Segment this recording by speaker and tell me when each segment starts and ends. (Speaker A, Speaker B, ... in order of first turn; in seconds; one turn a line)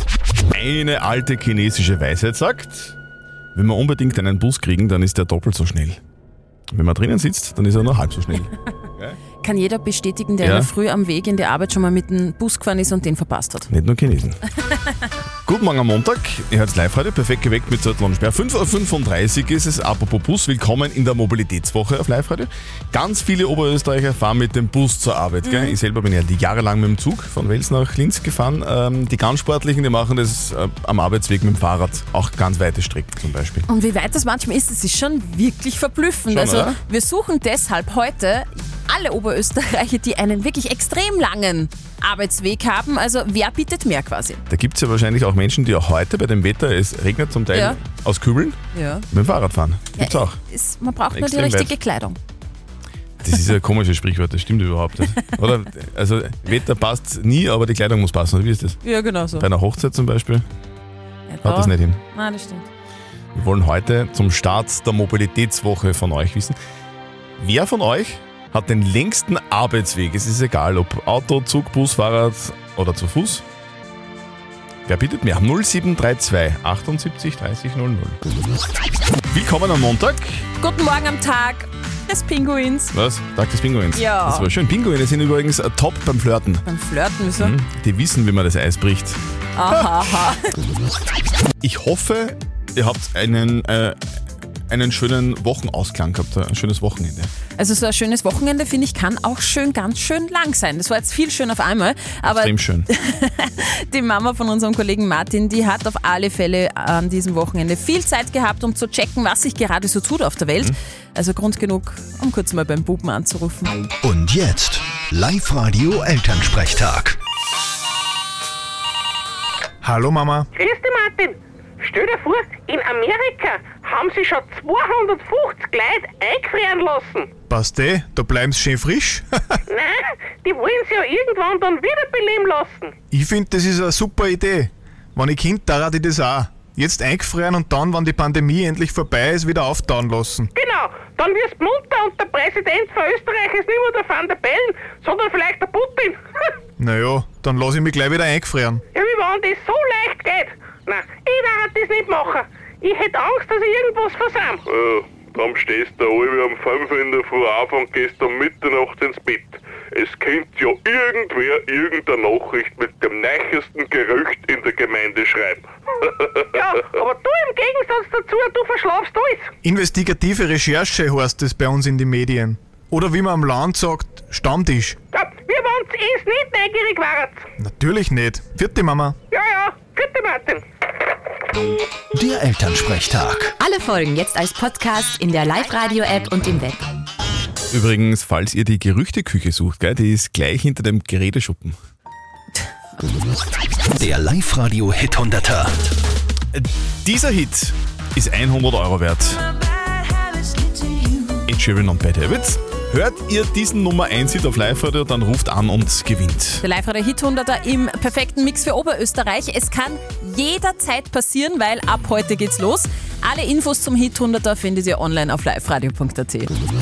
Speaker A: 0.5-2.9
Speaker A: 3.5-6.0
Speaker A: 6.7-9.2
Speaker B: 9.4-13.7
Speaker A: 10.4-10.7
Speaker A: 13.7-14.4
Speaker A: 15.4-33.7
Speaker B: 25.4-25.8
Speaker B: 33.7-44.4
Speaker A: 36.3-36.8
Speaker A: 44.5-48.6
Speaker B: 47.5-47.8
Speaker B: 48.7-49.0
Speaker A: 49.1-50.4
Speaker B: 50.0-52.2
Speaker A: 51.1-51.8
Speaker A: 53.2-58.8
Speaker B: 58.8-59.5
Speaker A: 59.4-60.4
Speaker B: 61.3-62.7
Speaker A: 61.4-62.0
Speaker A: 63.3-66.6
Speaker A: 67.4-73.4
Speaker A: 74.8-78.2
Speaker A: 79.3-80.4
Speaker B: 80.6-82.9
Speaker A: 82.9-86.6
Speaker B: 83.9-84.5
Speaker B: 86.6-87.5
Speaker A: 87.4-89.2
Speaker B: 89.5-90.4
Speaker A: 89.7-90.0
Speaker A: 91.6-94.0
Speaker A: 94.7-97.3
Speaker B: 97.6-113.7
Speaker A: 102.2-102.9
Speaker C: 114.0-117.2
Speaker D: 119.8-120.5
Speaker E: 120.5-127.3
Speaker D: 127.5-129.6
Speaker E: 129.7-132.9
Speaker D: 133.1-140.5
Speaker E: 140.5-146.2
Speaker D: 146.8-148.8
Speaker E: 148.9-154.4
Speaker F: 154.4-167.2
Speaker E: 167.1-169.4
Speaker D: 169.6-175.0
Speaker E: 175.1-177.4
Speaker D: 177.6-179.2
Speaker E: 179.3-180.6
Speaker C: 182.1-183.6
Speaker G: 183.6-186.8
Speaker A: 187.7-191.8
Speaker C: 193.9-195.8
Speaker A: 196.5-199.4
Speaker A: 201.4-206.6
Speaker B: 206.6-216.5